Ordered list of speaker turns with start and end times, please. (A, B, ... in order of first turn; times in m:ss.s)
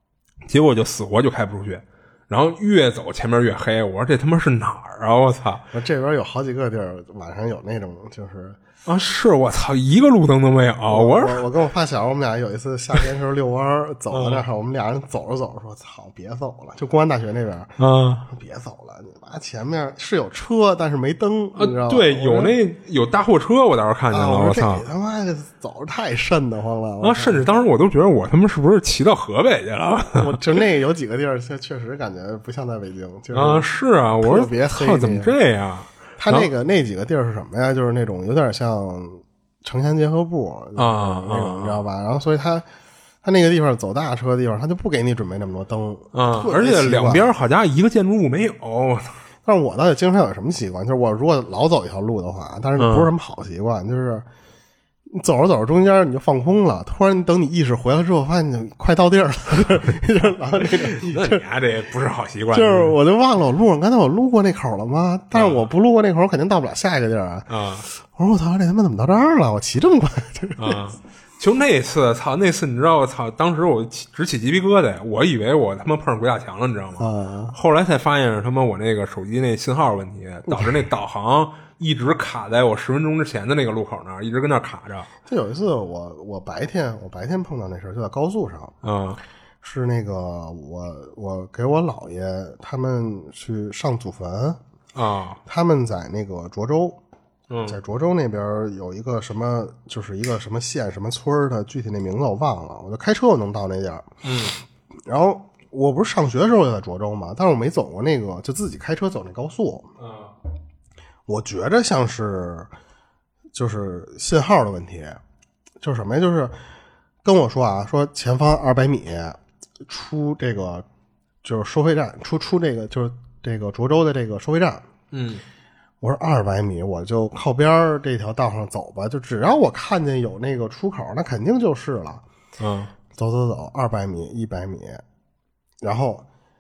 0:00.5-0:05.7 A
0:05.7-0:08.6 B
0:08.9-0:11.5 A
0:10.9-0:22.6 B
0:14.1-0:14.4 A
0:17.8-0:18.3 A
0:21.6-0:24.8 A
0:24.1-0:27.4 B
0:27.0-0:30.4 A
0:30.2-0:33.7 B
0:33.3-0:36.5 A
0:34.2-0:35.4 B
0:36.2-0:42.6 B
0:40.8-0:41.8 A
0:43.2-0:47.3 B
0:46.1-0:49.2 A
0:49.4-0:54.3 B
0:52.8-0:53.1 A
0:55.1-1:01.4 B
1:00.6-1:03.0 A
1:02.5-1:10.9 B
1:05.3-1:05.7 A
1:07.5-1:07.9 A
1:10.6-1:25.1 A
1:17.0-1:17.6 B
1:20.5-1:20.8 B
1:25.3-1:28.8 B
1:28.8-1:29.2 A
1:29.6-1:34.6 B
1:34.9-1:35.4 A
1:35.4-1:37.0 B
1:37.5-1:37.8 A
1:37.7-1:44.1 B
1:44.2-1:44.6 A
1:45.1-1:49.9 B
1:50.0-1:50.4 A
1:51.3-1:52.7 B
1:53.5-1:55.2 B
1:55.8-1:56.6 B
1:57.2-2:00.8 B
2:01.4-2:04.8 B
2:05.1-2:05.4 A
2:06.0-2:12.2 B
2:12.6-2:12.9 A
2:13.1-2:15.0 B
2:15.8-2:16.2 B